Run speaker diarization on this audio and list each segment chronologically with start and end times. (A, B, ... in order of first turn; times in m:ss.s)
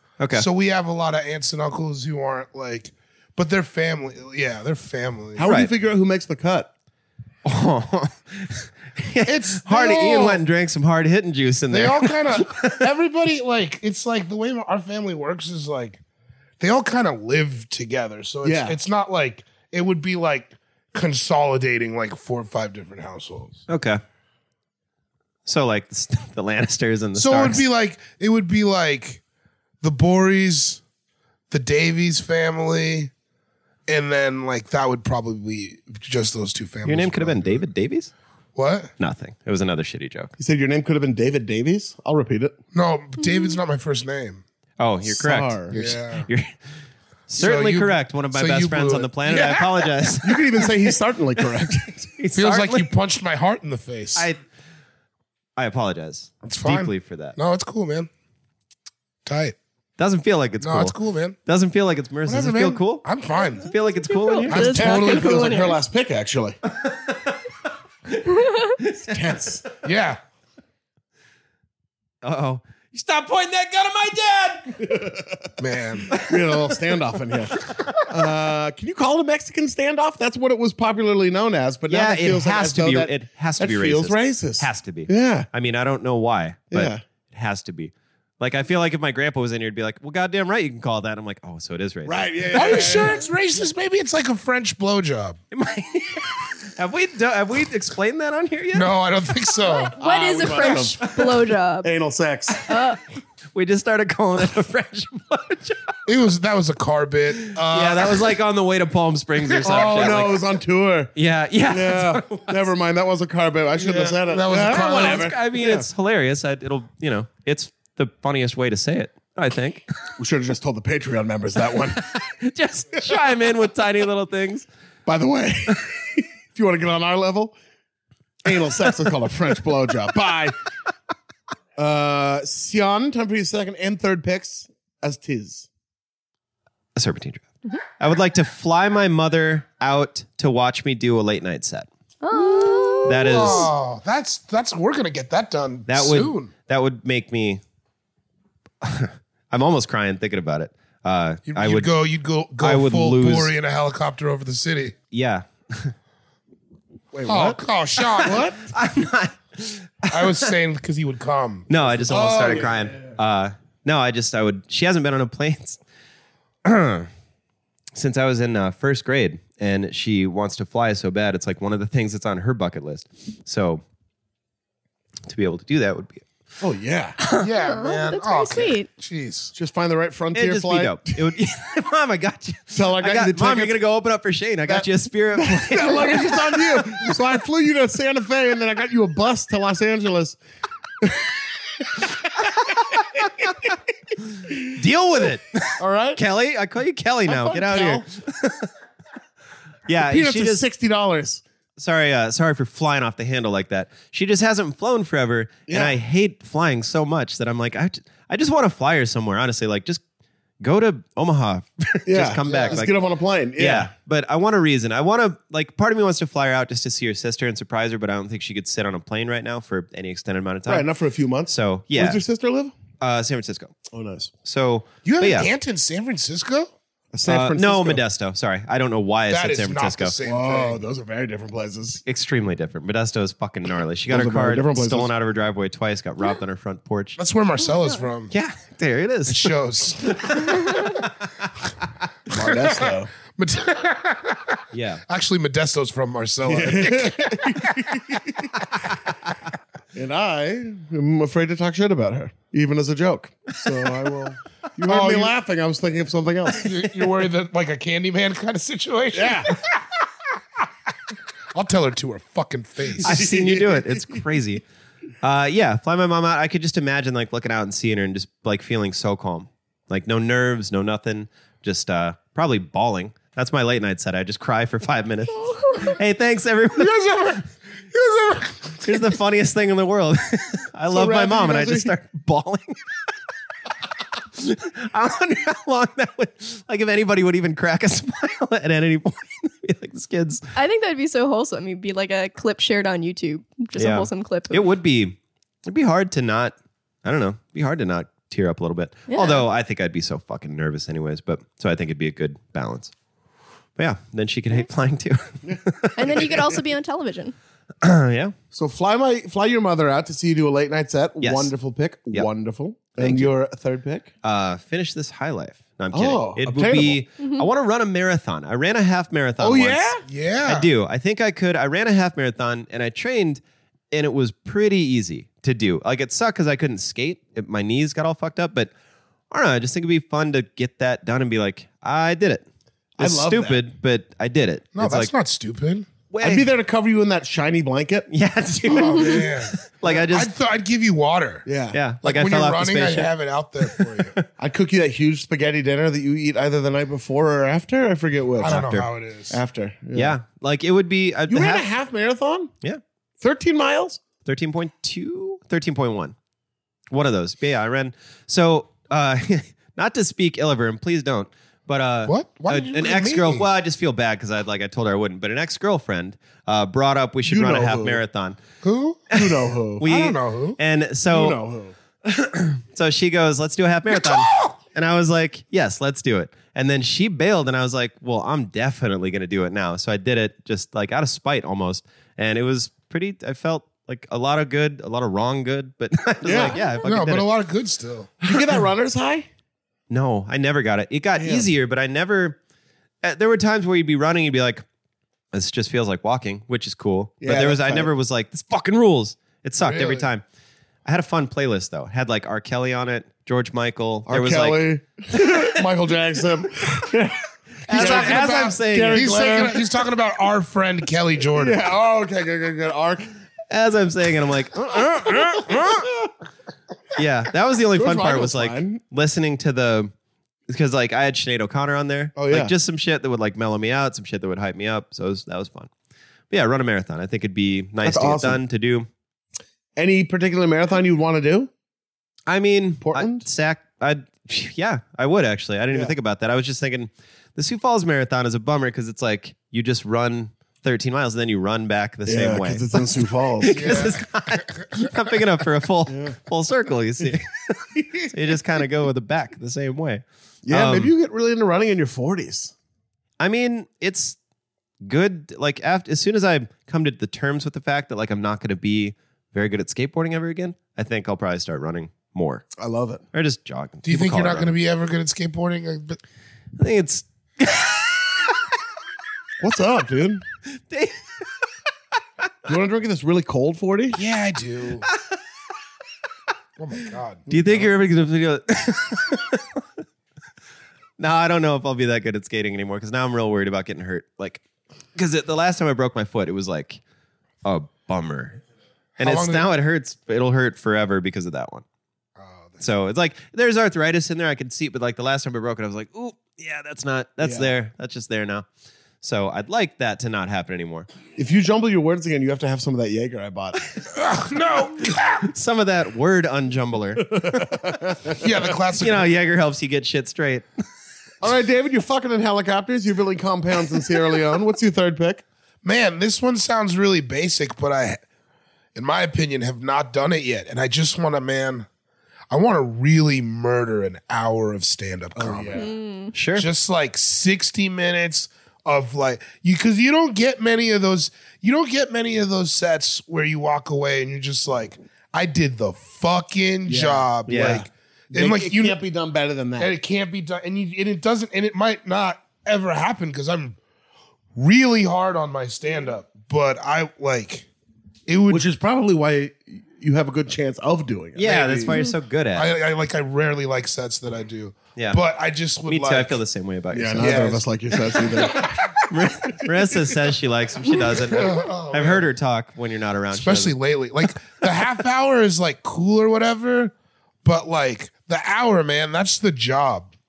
0:00.2-0:00.4 A
0:00.3-0:05.4 B
0:05.3-0:06.7 C
0:05.4-0:05.7 A
0:07.4-0:12.8 A
0:09.2-0:10.4 B
0:11.7-0:16.0 B
0:16.6-0:23.6 B
0:18.4-0:18.8 C
0:23.7-0:24.0 A
0:25.4-0:27.6 A
0:27.2-0:29.2 B
0:29.8-0:30.8 B
0:31.5-0:33.1 B
0:33.9-0:37.6 B
0:36.8-0:38.1 A
0:38.5-0:38.9 B
0:39.0-0:40.3 A
0:40.4-0:42.6 C
0:42.7-0:44.4 B
0:44.8-0:46.5 A
0:45.0-0:45.8 C
0:45.7-0:46.3 B
0:47.3-0:52.9 A
0:47.4-0:49.8 B
0:50.2-0:52.0 C
0:52.3-0:54.3 B
0:55.6-0:57.4 A
0:56.4-0:58.1 B
0:59.2-0:59.6 B
1:00.0-1:00.9 A
1:00.6-1:01.4 B
1:01.4-1:03.0 A
1:02.2-1:03.7 B
1:03.6-1:04.8 A
1:04.1-1:05.8 D
1:04.5-1:05.6 B
1:04.5-1:06.6 C
1:06.7-1:07.4 A
1:08.1-1:09.4 A
1:08.4-1:08.7 D
1:09.0-1:09.6 C
1:09.8-1:10.2 B
1:12.2-1:14.8 A
1:14.8-1:15.5 C
1:15.6-1:16.2 B
1:16.1-1:16.8 A
1:16.1-1:25.5 C
1:17.6-1:18.0 A
1:21.9-1:33.0 A
1:26.7-1:27.0 C
1:32.0-1:33.2 C
1:32.5-1:35.4 B
1:35.5-1:38.9 A
1:38.7-1:40.0 B
1:39.7-1:41.9 D
1:40.0-1:42.6 C
1:42.6-1:43.0 D
1:43.5-1:45.9 A
1:46.0-1:48.3 B
1:47.5-1:50.4 A
1:49.5-1:50.2 B
1:49.6-1:51.1 C
1:51.2-1:52.7 A
1:51.7-1:55.9 C
1:53.8-1:59.8 A
1:54.2-1:55.3 B
2:00.2-2:02.0 C
2:01.8-2:04.6 A
2:05.0-2:07.5 C
2:08.4-2:10.5 C
2:11.8-2:15.7 C
2:17.0-2:17.4 A
2:18.0-2:21.9 A
2:22.2-2:23.7 D
2:23.0-2:23.7 A
2:23.2-2:26.5 B
2:25.9-2:27.6 A
2:28.8-2:31.9 A
2:31.5-2:34.9 B
2:32.6-2:33.5 A
2:35.1-2:35.9 A
2:37.1-2:37.6 C
2:37.2-2:38.5 B
2:38.0-2:40.5 A
2:38.2-2:38.7 C
2:40.1-2:42.7 B
2:41.7-2:45.8 A
2:42.3-2:42.7 C
2:46.6-2:47.1 A
2:47.9-2:53.8 A
2:55.3-2:56.3 A
2:56.6-2:57.2 C
2:57.2-2:57.5 A
2:57.4-2:59.5 B
2:57.6-2:58.9 D
2:59.5-3:01.3 C
3:00.3-3:07.0 A
3:02.7-3:03.8 C
3:04.7-3:10.4 C
3:11.0-3:13.8 C
3:12.8-3:13.0 A
3:14.4-3:14.7 C
3:14.6-3:18.7 A
3:15.8-3:16.2 C
3:17.2-3:18.0 C
3:19.9-3:20.6 A
3:20.0-3:21.4 C
3:21.8-3:30.0 A
3:25.7-3:25.9 C
3:30.6-3:33.0 A
3:32.0-3:33.9 C
3:32.4-3:32.8 B
3:33.6-3:40.9 A
3:40.6-3:42.7 C
3:41.5-3:42.2 A
3:43.0-3:43.8 A
3:43.9-3:44.3 C
3:44.4-3:45.5 A
3:45.0-3:46.7 B
3:47.1-3:48.0 C
3:47.2-3:50.2 A
3:49.3-3:50.8 B
3:50.2-3:52.0 C
3:52.0-3:57.2 A
3:54.1-3:55.1 C
3:57.2-3:58.3 B
3:58.3-4:01.0 A
3:59.3-4:00.8 B
4:02.3-4:03.1 C
4:02.3-4:08.0 B
4:04.7-4:05.0 A
4:06.4-4:08.6 C
4:09.9-4:16.9 C
4:14.9-4:15.3 B
4:16.5-4:19.8 B
4:19.1-4:19.5 C
4:21.5-4:23.1 B
4:23.0-4:24.2 C
4:23.0-4:24.6 A
4:25.2-4:37.4 A
4:36.8-4:37.4 B
4:37.9-4:38.5 B
4:38.7-4:42.8 A
4:40.9-4:41.9 C
4:44.3-4:50.4 A
4:50.5-4:54.6 D
4:53.8-5:02.9 A
4:59.1-4:59.4 D
5:03.8-5:06.4 A
5:06.0-5:07.3 D
5:07.8-5:08.3 A
5:08.5-5:14.1 C
5:11.2-5:11.5 A
5:12.9-5:13.3 A
5:14.2-5:28.7 A
5:15.9-5:17.0 C
5:17.2-5:17.4 D
5:19.4-5:20.0 C
5:20.0-5:20.7 B
5:29.3-5:32.4 A
5:33.0-5:33.6 C
5:33.0-5:35.1 A
5:34.8-5:35.9 B
5:36.1-5:36.5 A
5:36.2-5:38.1 C
5:38.1-5:40.3 A
5:38.7-5:41.4 B
5:38.7-5:39.0 C
5:41.4-5:41.8 C
5:41.7-5:44.2 A
5:42.0-5:44.1 B
5:44.4-5:50.2 C
5:48.4-5:49.4 B
5:48.4-5:48.8 A
5:49.9-5:51.6 A
5:51.3-5:52.5 C
5:53.2-5:54.0 C
5:54.2-5:56.1 A
5:56.9-6:08.4 A
6:02.0-6:03.4 B
6:07.3-6:08.0 C
6:08.6-6:09.1 B
6:09.1-6:11.4 A
6:09.1-6:09.8 C
6:09.8-6:10.6 B
6:11.1-6:11.7 C
6:12.0-6:27.3 A
6:14.0-6:14.5 B
6:26.2-6:26.6 C
6:26.8-6:28.1 B
6:28.2-6:29.3 C
6:29.9-6:32.4 A
6:31.2-6:31.5 C
6:33.0-6:34.6 A
6:35.3-6:40.2 A
6:37.2-6:37.9 C
6:39.6-6:40.0 B
6:40.8-6:44.6 A
6:44.1-6:49.6 C
6:47.6-6:49.3 A
6:47.7-6:51.6 B
6:51.3-6:53.1 C
6:53.5-6:55.9 A
6:54.8-6:56.1 C
6:57.0-6:59.9 A
6:57.7-6:58.8 C
7:00.5-7:05.7 A
7:02.2-7:02.5 C
7:06.3-7:08.9 A
7:07.8-7:08.4 C
7:09.8-7:11.5 C
7:12.3-7:30.9 A
7:12.8-7:13.2 C
7:22.0-7:23.9 C
7:23.5-7:24.6 B
7:25.9-7:26.2 C
7:27.7-7:28.3 C
7:30.4-7:32.5 C
7:33.2-7:34.2 A
7:34.8-7:42.4 A
7:42.6-7:43.0 C
7:43.1-7:44.5 A
7:43.8-7:46.0 B
7:46.6-7:48.4 A
7:49.4-7:50.2 C
7:50.7-7:51.0 A
7:52.4-7:54.0 C
7:53.9-7:54.9 B
7:56.6-7:57.7 B
7:57.3-7:59.6 A
8:01.0-8:04.4 A
8:04.9-8:06.8 A
8:07.4-8:08.4 A
8:09.0-8:09.4 B
8:09.0-8:11.6 A
8:12.2-8:12.6 B
8:12.6-8:18.4 A
8:17.2-8:17.5 C
8:19.0-8:20.9 A
8:21.2-8:23.6 C
8:23.9-8:25.2 B
8:24.8-8:27.5 A
8:27.0-8:28.3 C
8:28.1-8:29.1 B
8:28.8-8:30.5 A
8:31.2-8:35.2 C
8:35.6-8:38.0 B
8:38.7-8:41.7 B
8:42.3-8:45.7 B
8:45.1-8:45.7 C
8:45.6-8:46.1 D
8:46.1-8:46.5 A
8:46.4-8:58.8 B
8:56.7-8:59.7 C
8:57.3-8:57.6 A
8:59.6-9:03.6 B
9:04.4-9:07.5 B
9:08.1-9:08.4 B
9:08.3-9:11.8 C
9:11.2-9:12.5 A
9:12.3-9:16.2 B
9:14.8-9:15.0 A
9:15.6-9:17.3 A
9:16.7-9:18.7 C
9:17.0-9:17.4 B
9:18.1-9:23.6 A
9:19.4-9:19.9 C
9:20.9-9:22.1 B
9:23.1-9:26.7 B
9:27.2-9:29.9 B